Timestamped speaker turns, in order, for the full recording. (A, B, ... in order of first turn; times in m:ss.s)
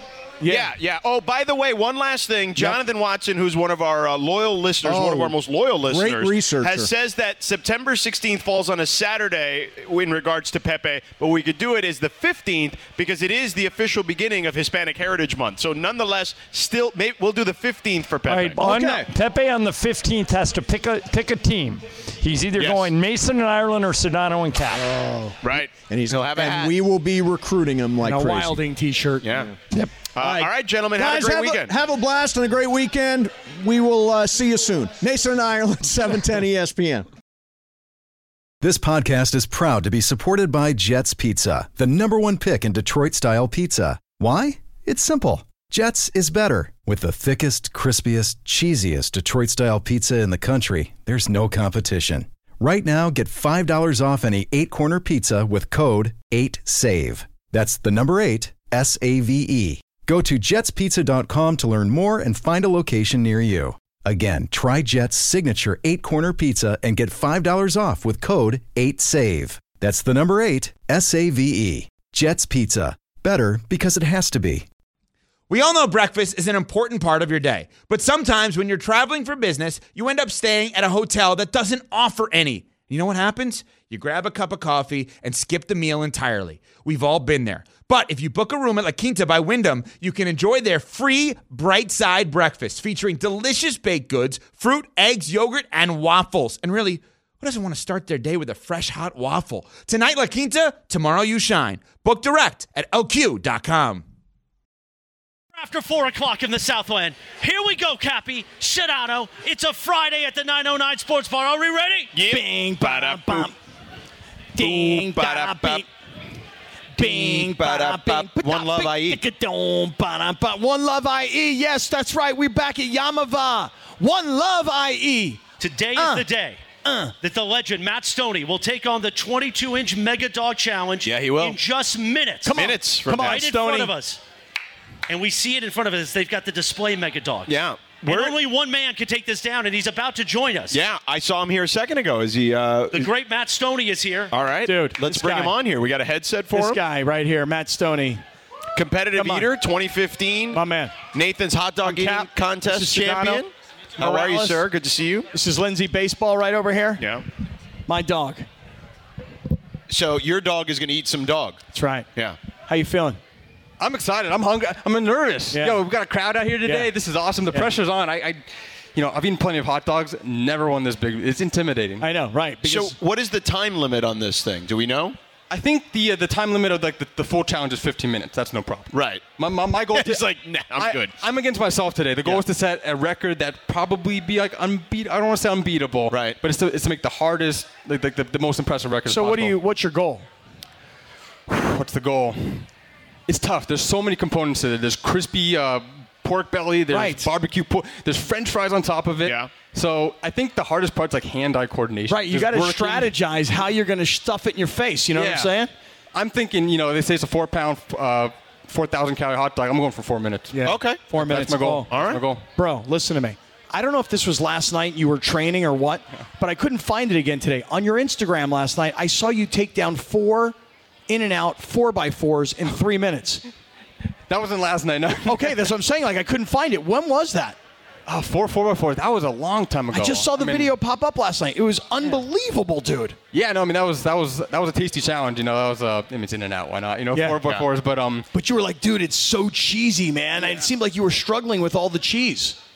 0:00.4-0:00.7 A
0:00.4-0:18.6 B
0:04.8-0:06.9 C
0:18.2-0:24.9 D
0:18.6-0:19.1 C
0:22.6-0:22.9 B
0:24.8-0:28.7 C
0:25.4-0:26.8 B
0:28.0-0:29.4 A
0:29.2-0:29.5 B
0:30.1-0:31.7 B
0:30.2-0:37.1 C
0:38.6-1:14.6 E
1:15.5-1:44.0 F
1:45.5-1:52.2 G
1:52.1-1:53.5 B
1:52.2-1:53.5 A
1:54.5-1:55.9 A
1:54.6-1:55.8 B
1:56.9-2:05.4 A
1:57.0-1:59.2 B
2:05.6-2:14.2 G
2:06.0-2:06.2 A
2:06.8-2:07.1 A
2:11.0-2:11.6 B
2:12.4-2:13.9 A
2:12.5-2:13.5 B
2:15.1-2:20.8 G
2:17.5-2:18.4 B
2:20.7-2:23.1 B
2:22.9-2:24.3 G
2:24.3-2:26.8 B
2:24.6-2:25.6 A
2:26.5-2:28.2 A
2:28.7-2:30.6 B
2:29.1-2:29.5 A
2:30.5-2:30.9 A
2:31.1-2:35.3 B
2:31.8-2:33.4 A
2:34.0-2:34.7 A
2:35.3-2:37.0 A
2:37.0-2:37.2 B
2:37.9-2:38.5 A
2:39.9-2:41.6 B
2:41.7-2:42.1 A
2:42.7-2:43.2 A
2:43.8-2:52.1 H
2:45.5-2:45.8 A
2:46.6-2:46.9 A
2:52.0-2:53.0 A
2:52.6-2:55.2 B
2:55.5-3:09.6 H
2:58.9-2:59.3 B
2:59.9-3:01.2 B
3:06.1-3:06.4 B
3:09.1-3:10.3 A
3:11.5-3:12.7 H
3:13.3-3:23.1 H
3:16.9-3:17.3 A
3:19.2-3:19.5 B
3:22.1-3:25.7 A
3:25.1-3:32.4 H
3:30.5-3:31.9 A
3:30.6-3:31.1 B
3:31.9-3:32.2 B
3:32.5-3:40.6 A
3:41.1-3:43.4 A
3:44.3-3:45.7 H
3:45.2-3:47.6 A
3:48.0-3:50.7 H
3:49.9-3:53.2 A
3:53.3-3:58.2 H
3:57.1-3:57.4 A
3:57.4-3:57.7 B
3:58.3-4:02.6 A